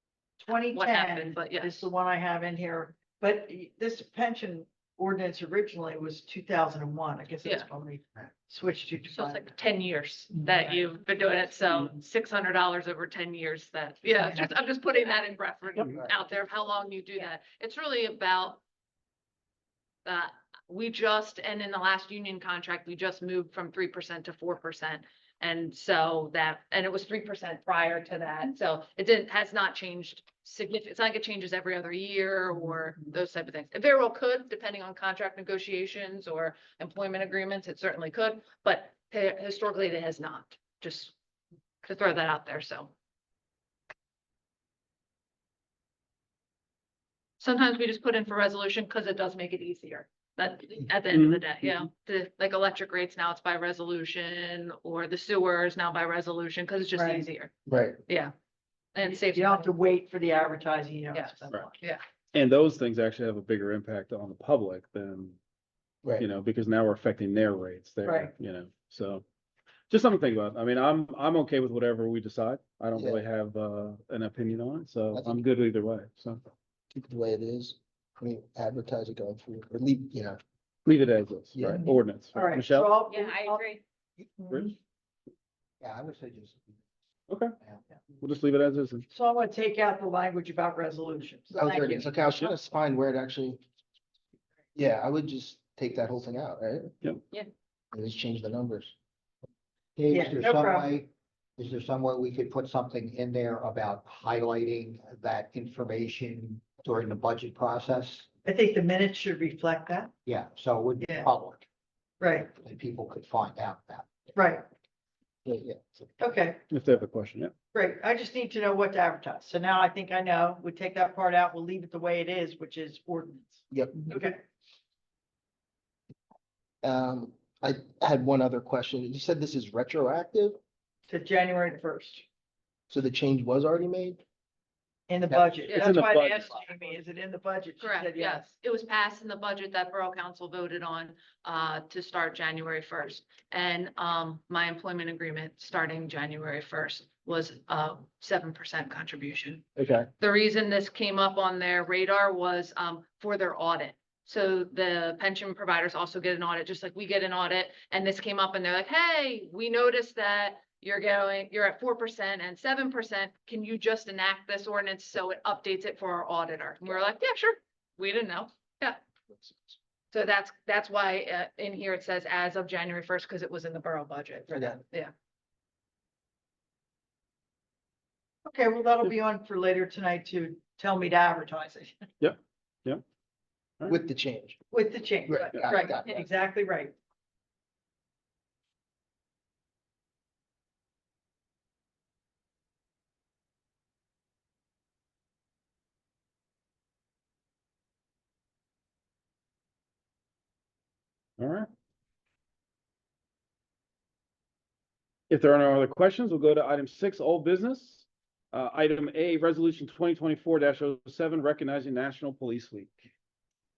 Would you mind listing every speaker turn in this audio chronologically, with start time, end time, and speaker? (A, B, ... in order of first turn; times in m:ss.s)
0:00.4-0:09.4 A
0:00.7-0:01.9 B
0:09.1-0:18.6 B
0:14.2-0:14.5 A
0:20.0-0:41.2 B
0:41.8-0:42.9 B
0:47.4-0:57.5 B
0:51.1-0:51.5 C
0:57.0-0:57.2 A
0:57.7-0:58.0 D
0:58.1-0:58.3 B
0:59.0-0:59.7 B
0:59.1-1:01.8 A
1:01.1-1:02.0 B
1:02.3-1:05.4 C
1:06.2-1:09.2 C
1:08.0-1:08.3 A
1:09.9-1:16.4 C
1:13.0-1:13.2 D
1:15.1-1:15.4 D
1:16.9-1:20.4 D
1:20.9-1:23.0 C
1:21.6-1:21.9 D
1:22.3-1:23.6 A
1:23.1-1:23.8 B
1:24.4-1:24.7 A
1:25.8-1:26.8 E
1:27.3-1:27.6 C
1:28.2-1:29.0 C
1:29.1-1:32.0 A
1:31.5-1:33.6 D
1:34.8-1:37.0 D
1:37.9-1:38.9 D
1:40.0-1:48.3 E
1:40.1-1:40.9 A
1:48.5-1:50.1 A
1:50.3-1:51.6 E
1:52.2-1:52.5 A
1:52.6-1:54.3 E
1:54.4-1:54.6 A
1:55.5-1:56.0 E
1:56.2-1:56.6 A
1:56.7-1:57.5 C
1:57.7-2:04.4 A
2:03.7-2:04.3 D
2:06.8-2:10.6 D
2:11.1-2:12.2 A
2:12.9-2:14.2 D
2:15.1-2:18.5 A
2:15.7-2:16.0 B
2:15.7-2:16.7 C
2:17.8-2:29.6 B
2:29.8-2:30.1 D
2:30.2-2:49.0 B
2:50.1-2:55.1 B
2:58.4-3:02.1 A
3:02.2-3:03.0 C
3:03.9-3:04.6 D
3:04.7-3:06.9 A
3:05.3-3:06.3 D
3:21.4-3:21.7 C
3:25.3-3:33.1 C